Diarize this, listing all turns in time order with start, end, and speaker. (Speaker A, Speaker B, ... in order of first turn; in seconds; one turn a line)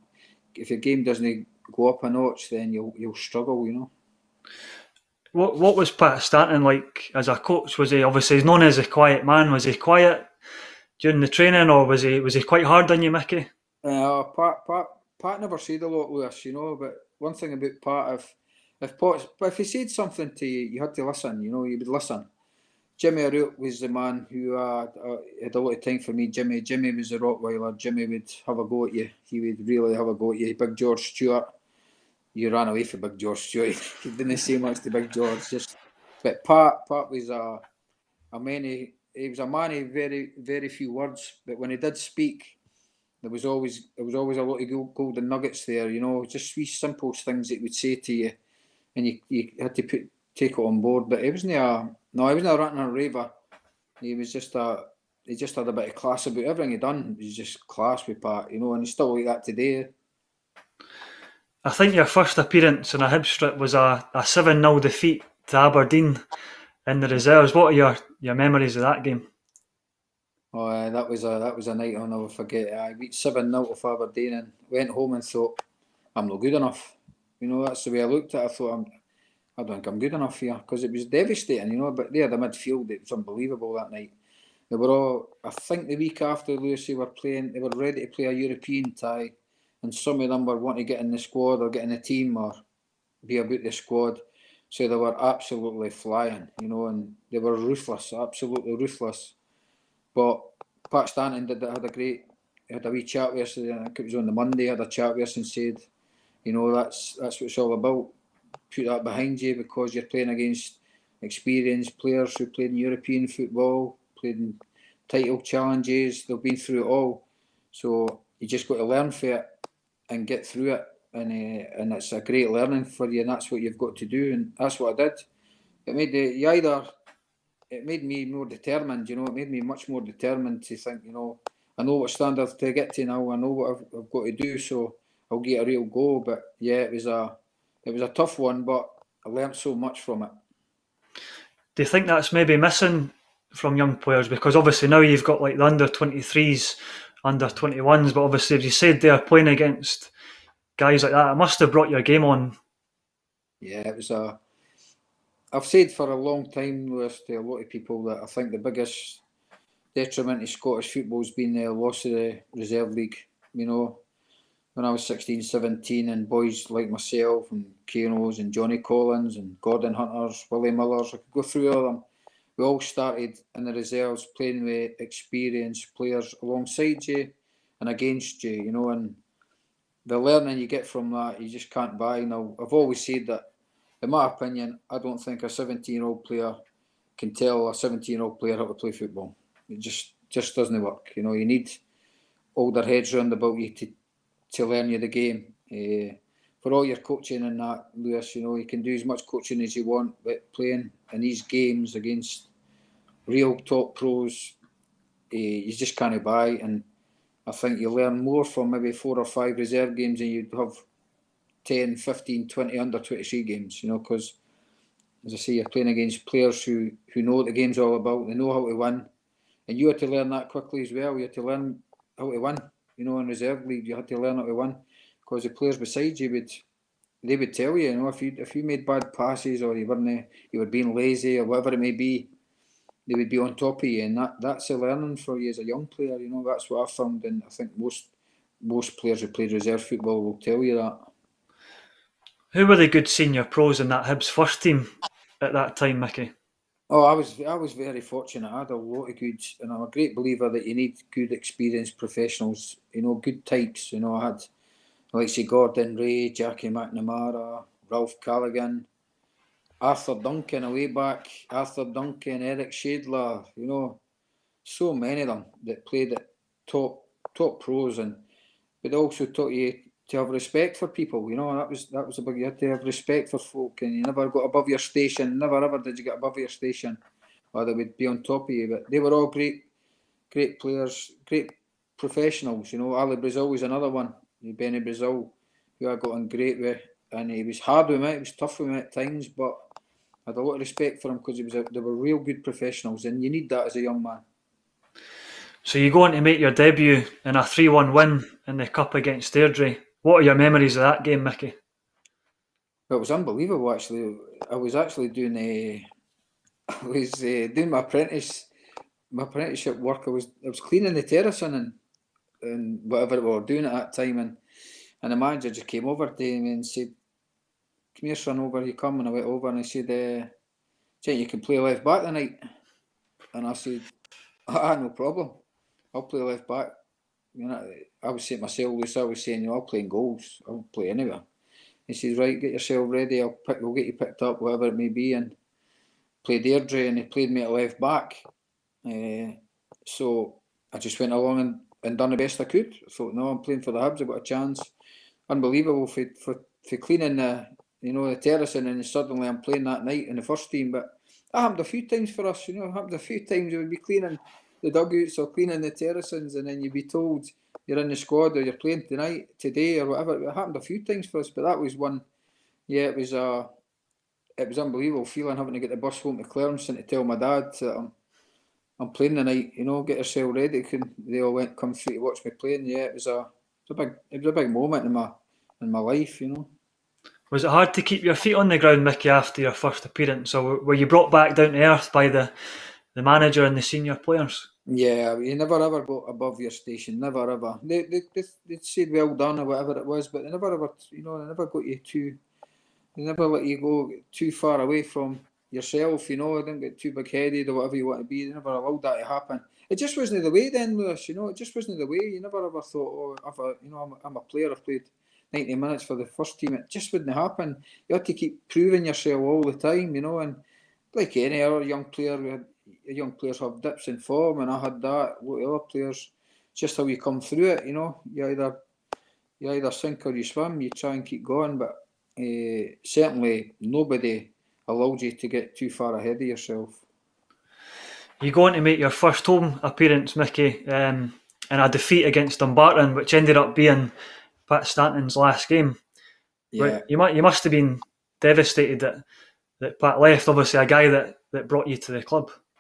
Speaker A: 0.6-3.9
Speaker B: 5.3-10.3
Speaker B: 11.0-13.5
Speaker A: 13.8-22.3
Speaker A: 23.0-31.5
Speaker A: 32.3-37.6
Speaker A: 38.3-42.6
Speaker A: 43.2-48.4
Speaker A: 49.0-53.3
Speaker A: 54.0-59.9
Speaker B: 61.6-66.2
Speaker B: 66.9-69.3
Speaker A: 70.5-75.6
Speaker A: 76.2-78.8
Speaker A: 79.6-84.1
Speaker A: 84.7-92.6
Speaker A: 93.2-99.3
Speaker A: 100.1-105.9
Speaker A: 106.5-108.1
Speaker A: 108.7-119.5
Speaker A: 120.1-125.3
Speaker A: 125.9-126.9
Speaker A: 127.7-140.3
Speaker B: 141.8-150.1
Speaker B: 150.8-152.6
Speaker A: 153.6-154.4
Speaker A: 155.5-159.2
Speaker A: 159.9-164.0
Speaker A: 164.8-172.1
Speaker A: 172.6-179.2
Speaker A: 180.1-183.4
Speaker A: 184.0-186.6
Speaker A: 187.2-191.8
Speaker A: 192.6-193.9
Speaker A: 194.5-202.5
Speaker A: 203.3-204.6
Speaker A: 205.3-206.8
Speaker A: 207.5-210.8
Speaker A: 211.7-214.4
Speaker A: 215.2-219.1
Speaker A: 219.7-226.6
Speaker A: 227.2-232.3
Speaker A: 233.1-238.1
Speaker A: 238.6-241.1
Speaker B: 242.5-244.9
Speaker B: 245.4-246.3
Speaker A: 246.9-254.5
Speaker A: 255.1-258.9
Speaker A: 259.8-264.0
Speaker A: 264.6-268.2
Speaker A: 268.8-277.0
Speaker A: 277.5-279.7
Speaker A: 280.3-289.6
Speaker A: 290.3-294.2
Speaker B: 295.6-301.6
Speaker A: 302.9-305.9
Speaker A: 306.7-308.5
Speaker A: 309.1-311.8
Speaker A: 312.4-314.4
Speaker A: 315.0-316.9
Speaker A: 317.9-320.3
Speaker A: 321.0-322.4
Speaker A: 323.3-323.9
Speaker A: 324.5-326.7
Speaker A: 327.4-331.2
Speaker A: 331.9-335.4
Speaker A: 336.2-338.2
Speaker A: 338.9-344.7
Speaker A: 345.3-362.1
Speaker A: 362.7-363.5
Speaker A: 364.4-367.9
Speaker A: 368.8-376.5
Speaker B: 377.3-382.3
Speaker B: 382.9-384.5
Speaker A: 384.7-392.2
Speaker A: 393.0-410.4
Speaker A: 410.9-418.6
Speaker A: 419.4-426.8
Speaker B: 428.2-433.9
Speaker B: 434.5-435.8
Speaker A: 436.5-436.8
Speaker B: 436.6-439.0
Speaker B: 439.6-442.4